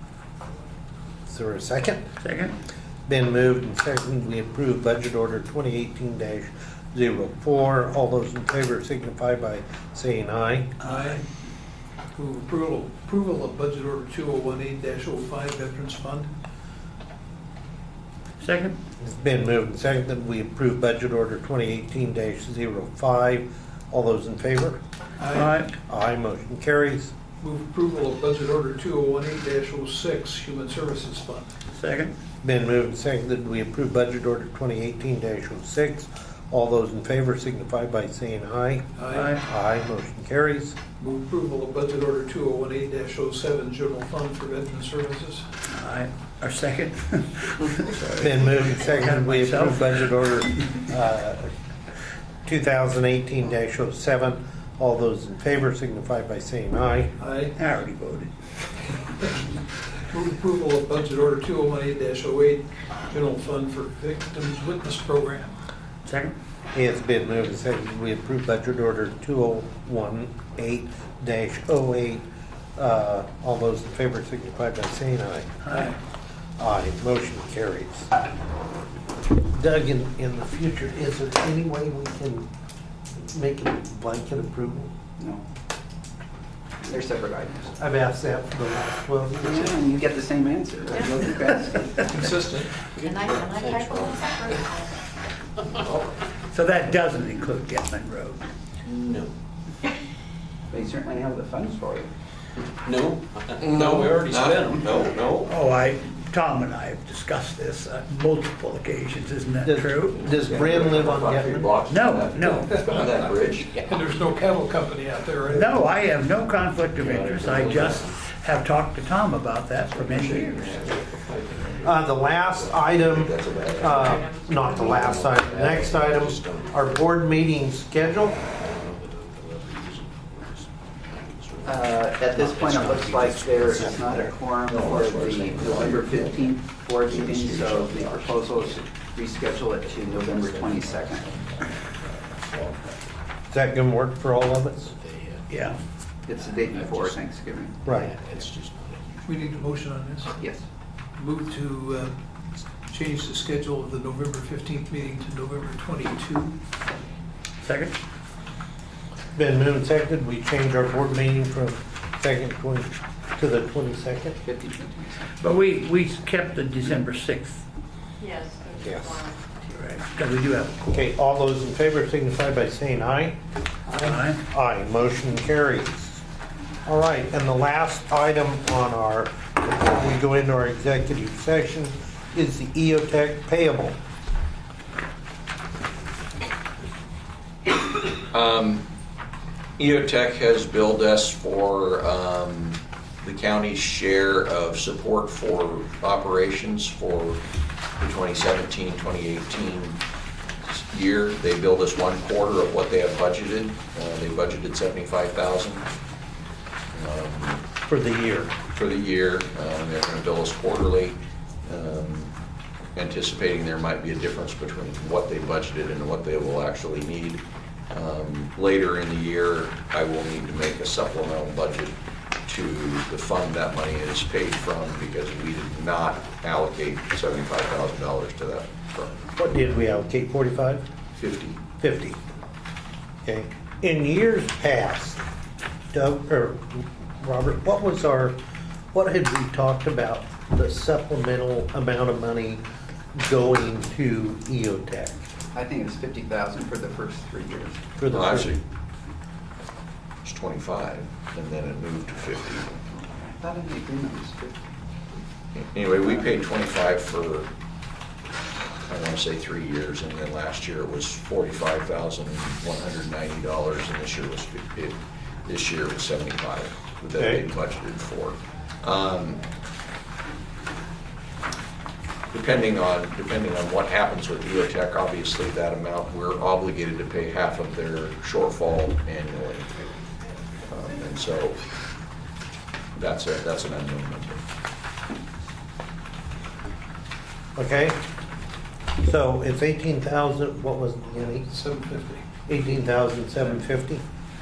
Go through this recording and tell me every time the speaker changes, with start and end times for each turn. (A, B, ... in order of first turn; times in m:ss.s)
0:01.3-0:02.0 A
0:02.2-0:02.5 B
0:03.1-0:10.7 A
0:10.8-0:11.2 B
0:10.8-0:11.2 C
0:12.2-0:16.3 C
0:18.4-0:18.8 B
0:19.0-0:24.8 A
0:25.2-0:25.5 C
0:25.3-0:25.7 B
0:25.9-0:27.1 A
0:27.4-0:31.5 C
0:31.8-0:32.2 B
0:32.4-0:40.8 A
0:39.0-0:39.3 C
0:39.1-0:39.4 B
0:41.0-0:45.4 C
0:45.7-0:50.1 B
0:48.2-0:51.5 A
0:52.5-0:57.1 A
0:57.2-0:57.6 C
0:57.6-0:58.3 B
1:00.1-1:05.6 C
1:06.0-1:06.3 B
1:06.7-1:12.2 A
1:12.8-1:15.9 A
1:15.6-1:16.0 B
1:16.6-1:18.1 A
1:19.5-1:22.5 A
1:23.2-1:24.9 A
1:26.9-1:27.8 D
1:27.8-1:30.0 A
1:29.4-1:32.1 D
1:30.9-1:31.3 E
1:32.1-1:32.7 C
1:33.0-1:34.6 F
1:33.0-1:35.0 E
1:36.5-1:38.4 B
1:38.9-1:39.3 F
1:40.7-1:42.1 D
1:42.8-1:45.5 F
1:43.6-1:45.4 G
1:45.4-1:50.3 B
1:49.6-1:51.8 A
1:50.2-1:53.7 G
1:51.8-1:52.8 B
1:52.6-1:55.7 C
1:55.5-2:00.5 B
1:57.0-1:58.2 F
1:59.9-2:02.0 F
2:01.8-2:08.4 A
2:02.5-2:04.2 F
2:03.2-2:04.0 G
2:04.0-2:05.4 E
2:04.9-2:07.0 F
2:08.6-2:16.3 F
2:11.6-2:21.3 D
2:13.8-2:14.3 A
2:14.6-2:16.5 G
2:17.1-2:23.0 F
2:17.3-2:18.3 G
2:23.5-2:24.9 A
2:24.9-2:25.5 F
2:25.5-2:25.8 B
2:26.3-2:27.8 D
2:26.5-2:27.3 F
2:27.8-2:28.2 A
2:27.9-2:29.3 F
2:29.3-2:30.3 C
2:31.2-2:32.1 C
2:32.9-2:36.6 C
2:37.6-2:38.0 B
2:39.4-2:44.4 A
2:44.4-2:45.2 D
2:45.4-2:47.6 B
2:48.2-2:49.9 E
2:48.8-2:49.2 A
2:49.7-2:51.0 B
2:50.9-2:53.4 A
2:54.0-2:54.4 B
2:54.5-2:56.2 A
2:56.9-3:04.0 A
3:08.3-3:08.8 G
3:09.8-3:17.4 G
3:18.0-3:20.0 G
3:20.7-3:25.9 G
3:26.9-3:27.6 G
3:27.9-3:28.5 A
3:28.7-3:32.3 G
3:33.0-3:49.2 G
3:49.4-3:50.9 A
3:51.2-3:51.6 G
3:51.8-3:52.2 A
3:53.2-3:55.2 A
3:55.9-3:58.4 A
3:58.9-4:02.6 A
4:03.2-4:05.2 A
4:05.5-4:07.8 D
4:08.0-4:08.6 A
4:08.1-4:08.6 G
4:10.2-4:12.7 G
4:13.2-4:14.7 D
4:15.6-4:17.5 G
4:18.8-4:29.4 G
4:27.2-4:27.5 A
4:32.3-4:39.7 G
4:40.7-4:41.6 G
4:43.0-4:44.4 G
4:47.6-4:48.0 A
4:49.0-4:51.5 A
4:51.5-4:52.2 C
4:52.5-4:54.0 A